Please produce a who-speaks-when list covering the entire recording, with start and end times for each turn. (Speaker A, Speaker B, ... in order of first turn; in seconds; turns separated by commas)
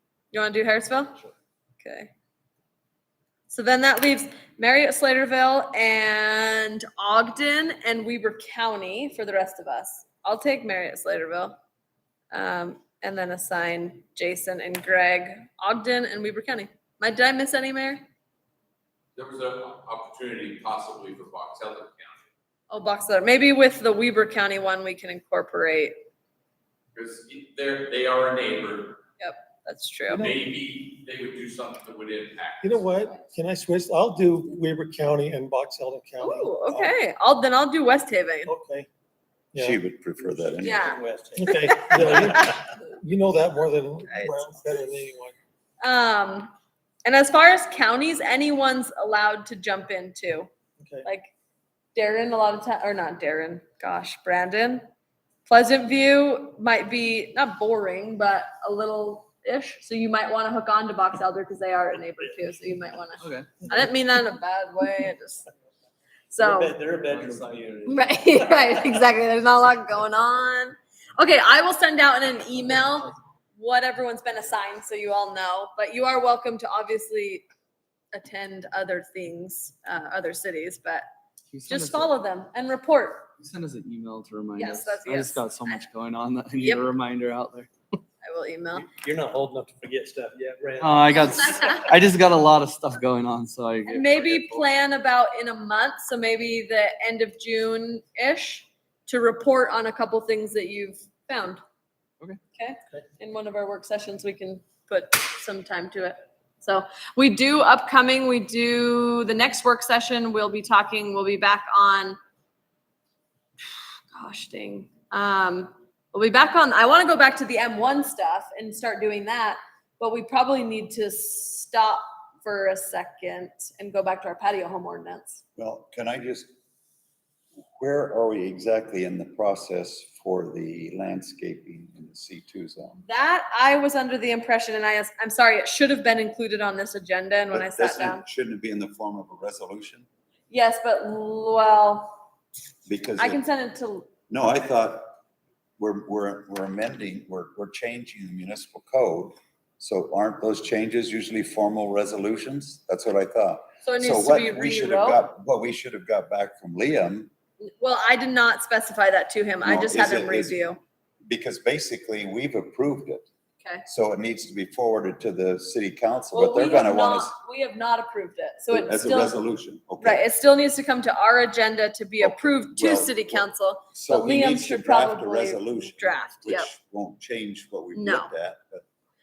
Speaker A: 0.3-1.1, Speaker A: 1.8-2.1, Speaker A: 3.5-11.6, Speaker A: 12.3-18.0, Speaker B: 19.1-22.2, Speaker A: 22.7-25.9, Speaker B: 26.9-29.0, Speaker A: 29.2-30.3, Speaker C: 30.1-30.4, Speaker B: 30.1-32.8, Speaker C: 32.6-36.9, Speaker A: 36.2-38.5, Speaker C: 38.5-38.9, Speaker C: 39.5-39.8, Speaker D: 39.6-40.9, Speaker E: 40.3-42.5, Speaker A: 40.6-42.5, Speaker C: 41.3-45.4, Speaker D: 44.1-44.8, Speaker A: 45.8-46.5, Speaker A: 47.0-50.5, Speaker A: 51.0-51.3, Speaker A: 51.9-54.8, Speaker A: 55.5-65.5, Speaker F: 63.2-63.5, Speaker A: 66.3-66.8, Speaker E: 66.4-69.0, Speaker F: 67.1-67.4, Speaker A: 67.8-77.4, Speaker A: 78.1-81.0, Speaker F: 81.5-82.1, Speaker A: 81.7-83.3, Speaker F: 83.4-87.7, Speaker A: 84.5-85.9, Speaker A: 86.6-86.9, Speaker A: 88.2-88.9, Speaker E: 88.7-91.8, Speaker F: 90.8-94.6, Speaker A: 91.1-91.8, Speaker A: 93.8-101.6, Speaker A: 102.5-112.2, Speaker A: 114.1-125.4, Speaker D: 125.6-126.5, Speaker D: 127.8-133.0, Speaker A: 133.0-138.2, Speaker D: 137.5-140.1, Speaker A: 140.5-142.2, Speaker D: 142.9-143.4, Speaker A: 143.2-144.1, Speaker D: 144.3-145.1, Speaker D: 145.8-157.3, Speaker A: 153.8-155.2, Speaker A: 157.8-160.8, Speaker D: 159.6-160.6, Speaker D: 161.3-163.3, Speaker D: 163.8-167.3, Speaker A: 166.3-169.4, Speaker D: 168.7-170.2, Speaker A: 170.0-176.7, Speaker D: 172.2-178.8, Speaker A: 177.9-178.3